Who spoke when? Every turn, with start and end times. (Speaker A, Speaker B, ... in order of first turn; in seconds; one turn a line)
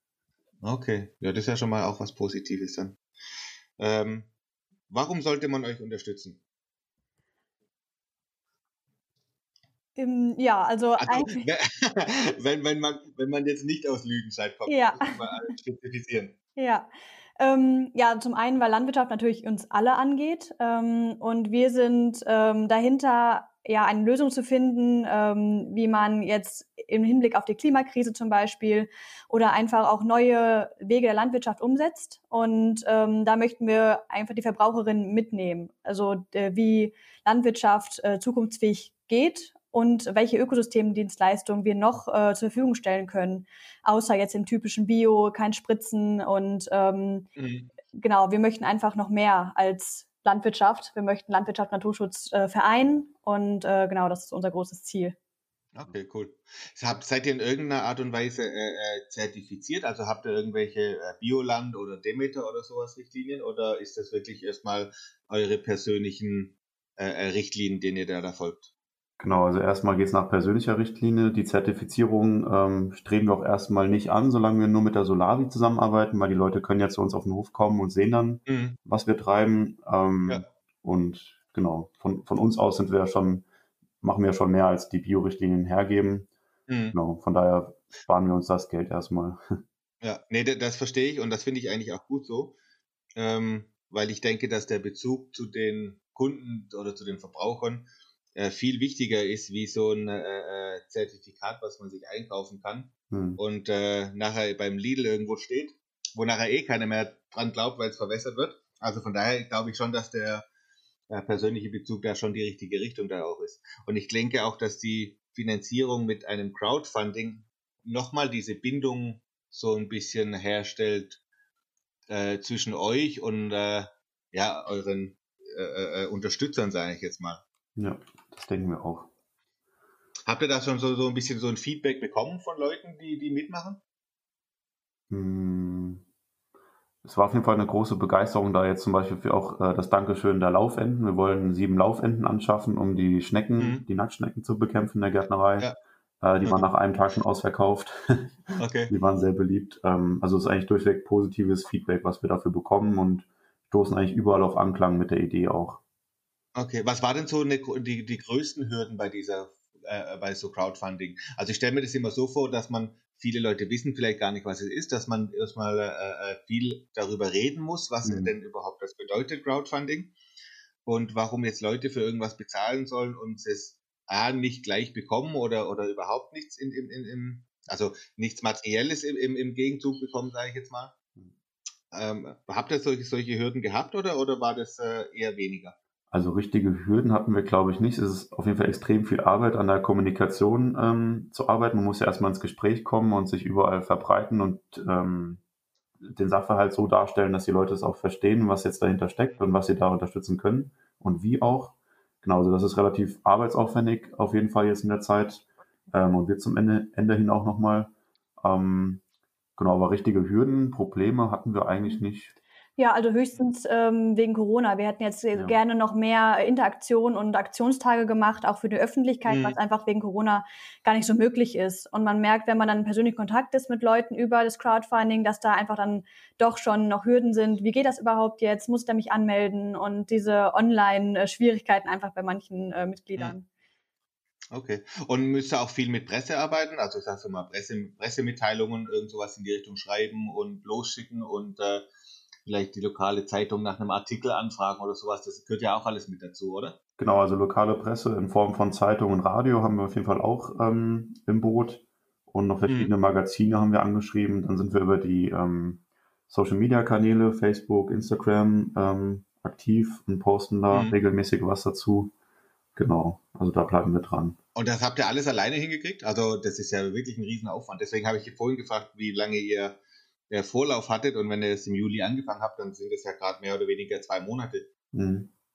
Speaker A: 0.6-3.0
Speaker A: 3.8-4.3
Speaker A: 4.9-6.4
Speaker B: 9.9-11.5
Speaker A: 11.0-16.3
Speaker B: 14.7-15.5
Speaker B: 16.6-16.9
Speaker B: 17.4-47.3
Speaker A: 47.4-47.7
Speaker B: 47.9-55.1
Speaker A: 55.7-68.7
Speaker C: 69.2-83.5
Speaker A: 78.5-78.8
Speaker C: 84.0-86.3
Speaker A: 86.7-86.9
Speaker C: 86.9-89.4
Speaker A: 90.0-92.5
Speaker A: 93.2-110.4
Speaker C: 103.1-103.4
Speaker A: 111.1-121.2
Speaker A: 122.1-127.4
Speaker C: 127.8-129.1
Speaker A: 130.3-133.8
Speaker C: 135.1-136.0
Speaker C: 137.0-145.7
Speaker A: 143.6-143.8
Speaker C: 146.2-155.8
Speaker A: 148.6-148.9
Speaker A: 156.5-170.1
Speaker C: 168.0-168.3
Speaker A: 170.8-180.9
Speaker A: 181.9-185.8
Speaker C: 186.1-195.4
Speaker C: 196.0-209.0
Speaker C: 209.6-212.3
Speaker B: 212.8-233.4
Speaker A: 219.2-219.6
Speaker A: 234.5-241.8
Speaker A: 242.4-246.8
Speaker C: 247.0-262.1
Speaker C: 262.8-264.4
Speaker A: 264.5-269.8
Speaker A: 270.3-274.7
Speaker C: 274.9-275.3